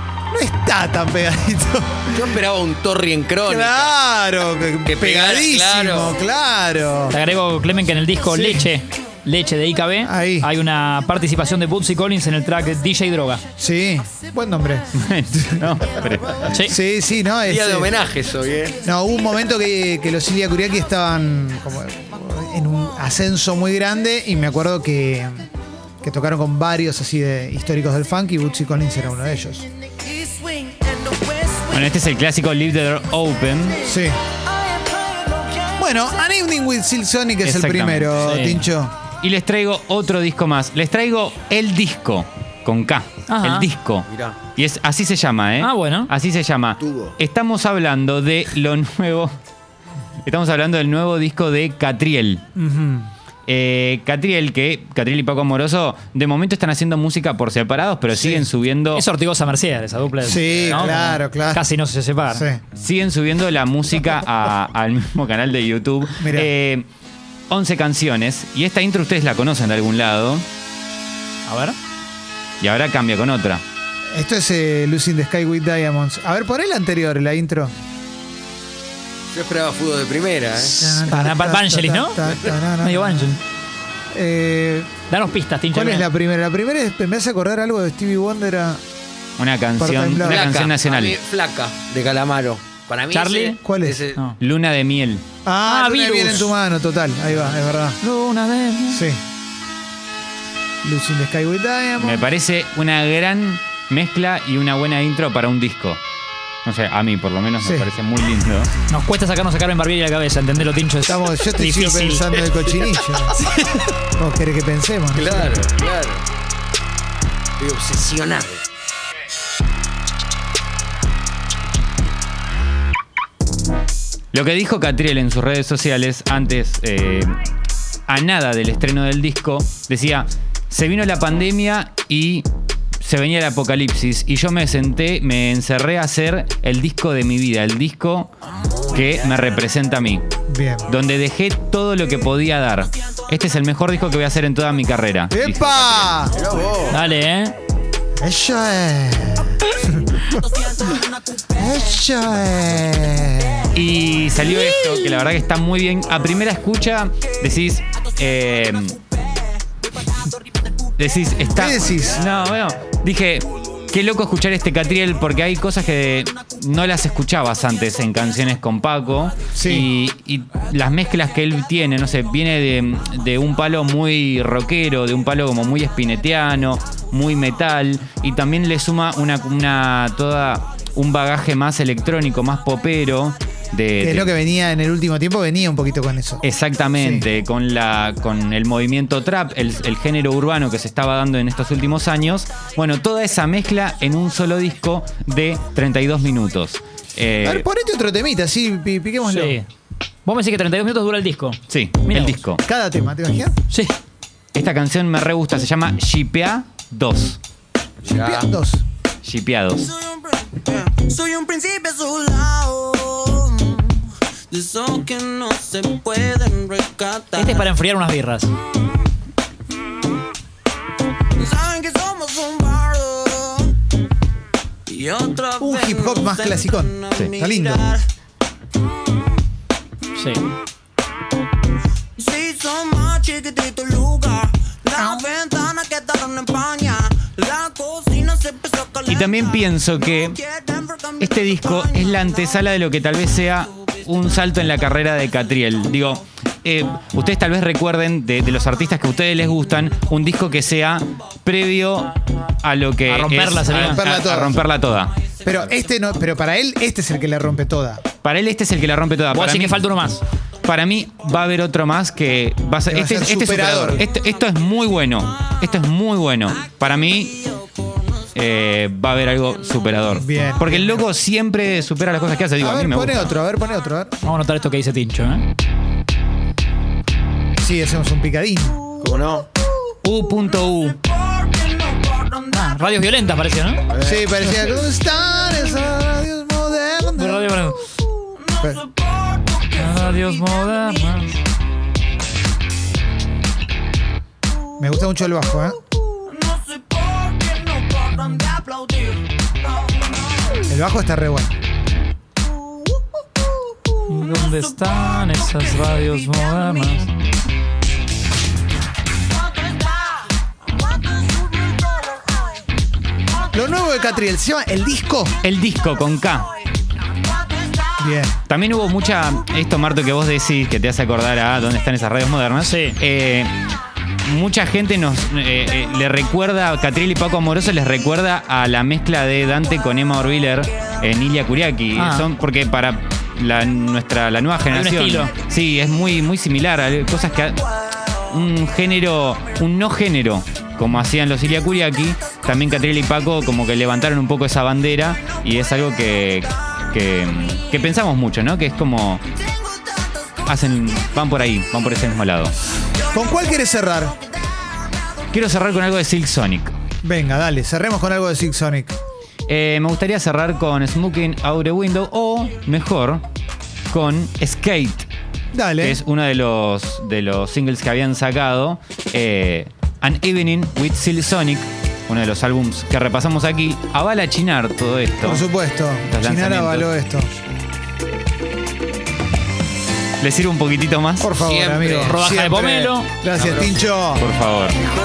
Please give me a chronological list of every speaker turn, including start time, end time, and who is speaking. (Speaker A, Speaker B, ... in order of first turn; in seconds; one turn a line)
Speaker A: 0.3-2.1
Speaker B: 2.1-4.0
Speaker A: 3.4-7.2
Speaker B: 4.8-6.2
Speaker C: 7.1-13.4
Speaker A: 8.2-8.7
Speaker A: 10.0-10.5
Speaker A: 13.6-15.8
Speaker D: 14.9-16.5
Speaker A: 16.6-17.9
Speaker B: 17.4-18.8
Speaker A: 18.8-25.5
Speaker A: 26.0-29.6
Speaker E: 30.0-31.6
Speaker D: 31.7-33.9
Speaker A: 33.8-34.2
Speaker E: 34.7-35.7
Speaker A: 35.8-39.0
Speaker D: 37.4-38.3
Speaker C: 38.2-38.6
Speaker D: 39.1-49.3
Speaker C: 43.3-43.7
Speaker B: 44.1-44.4
Speaker C: 45.6-46.1
Speaker B: 46.8-47.1
Speaker D: 50.2-52.4
Speaker A: 52.5-53.1
Speaker D: 53.5-59.0
Speaker A: 58.1-58.5
Speaker C: 58.9-62.4
Speaker A: 60.2-61.7
Speaker A: 62.3-62.6
Speaker D: 62.7-66.9
Speaker A: 66.2-66.5
Speaker D: 67.5-70.4
Speaker C: 71.5-71.8
Speaker D: 72.6-73.6
Speaker A: 74.1-77.7
Speaker B: 79.3-81.1
Speaker A: 80.6-83.4
Speaker C: 81.1-82.2
Speaker C: 82.8-83.4
Speaker A: 84.1-84.9
Speaker C: 85.1-86.1
Speaker A: 85.7-88.8
Speaker D: 89.4-91.2
Speaker A: 89.8-90.7
Speaker B: 90.2-94.3
Speaker C: 93.1-93.6
Speaker A: 93.6-94.0
Speaker D: 94.4-95.3
Speaker A: 95.4-98.0
Speaker C: 95.7-96.5
Speaker C: 98.0-99.0
Speaker A: 98.9-99.2
Speaker A: 100.8-102.2
Speaker D: 102.0-106.0
Speaker D: 106.6-108.7
Speaker A: 107.6-107.9
Speaker C: 108.9-112.3
Speaker A: 111.0-113.4
Speaker B: 113.3-113.9
Speaker A: 114.2-115.5
Speaker B: 115.1-116.2
Speaker B: 117.6-118.6
Speaker D: 124.3-127.4
Speaker D: 128.1-132.4
Speaker D: 133.0-138.3
Speaker D: 138.9-140.2
Speaker A: 140.5-140.9
Speaker D: 140.8-146.3
Speaker A: 145.3-146.4
Speaker B: 146.3-147.0
Speaker C: 146.9-147.6
Speaker A: 148.2-150.9
Speaker A: 151.5-153.8
Speaker D: 153.7-159.0
Speaker D: 161.0-184.4
Speaker A: 161.6-162.2
Speaker A: 169.5-169.9
Speaker A: 184.0-186.4
Speaker D: 186.4-197.7
Speaker A: 186.9-187.3
Speaker A: 197.4-199.6
Speaker C: 199.2-199.7
Speaker C: 200.2-202.3
Speaker D: 201.7-202.6
Speaker A: 202.3-203.6
Speaker C: 203.7-203.9
Speaker D: 204.5-207.4
Speaker B: 208.0-208.5
Speaker A: 208.1-208.8
Speaker D: 209.2-209.9
Speaker E: 210.0-217.6
Speaker C: 217.3-218.5
Speaker E: 221.4-223.7
Speaker E: 224.9-228.0
Speaker A: 225.6-227.9
Speaker C: 230.2-230.5
Speaker E: 232.2-239.1
Speaker A: 235.0-235.2
Speaker D: 239.1-240.4
Speaker E: 240.4-241.6
Speaker D: 241.2-255.7
Speaker C: 253.1-254.0
Speaker A: 253.7-254.6
Speaker A: 255.4-258.0
Speaker D: 258.2-259.9
Speaker C: 259.3-260.2
Speaker D: 260.6-267.4
Speaker A: 262.9-264.0
Speaker D: 268.3-273.4
Speaker A: 270.1-271.1
Speaker A: 272.6-274.1
Speaker C: 274.2-275.4
Speaker A: 277.6-278.9
Speaker B: 279.0-279.5
Speaker D: 280.0-281.0
Speaker E: 281.0-282.4
Speaker C: 282.5-283.8
Speaker B: 283.9-284.6
Speaker A: 284.0-287.5
Speaker C: 287.2-287.9
Speaker E: 288.6-289.7
Speaker C: 289.7-291.4
Speaker A: 294.8-295.8
Speaker E: 296.2-300.6
Speaker C: 298.2-298.5
Speaker A: 300.6-301.5
Speaker C: 304.1-307.1
Speaker E: 306.3-306.6
Speaker A: 313.5-315.4
Speaker D: 315.4-316.5
Speaker A: 318.0-318.3
Speaker D: 318.4-323.5
Speaker C: 322.6-323.0
Speaker D: 324.2-337.6
Speaker C: 331.9-332.3
Speaker C: 334.7-335.3
Speaker D: 338.3-349.2
Speaker D: 350.4-352.5
Speaker A: 353.1-354.2
Speaker D: 355.3-356.8
Speaker A: 357.0-358.9
Speaker D: 359.5-363.2
Speaker D: 363.9-365.1
Speaker A: 365.5-366.0
Speaker D: 365.8-375.5
Speaker A: 375.2-377.3
Speaker D: 376.0-377.0
Speaker D: 380.2-381.4
Speaker A: 381.2-384.3
Speaker B: 381.4-382.2
Speaker C: 382.0-383.1
Speaker B: 383.3-383.9
Speaker D: 384.1-384.8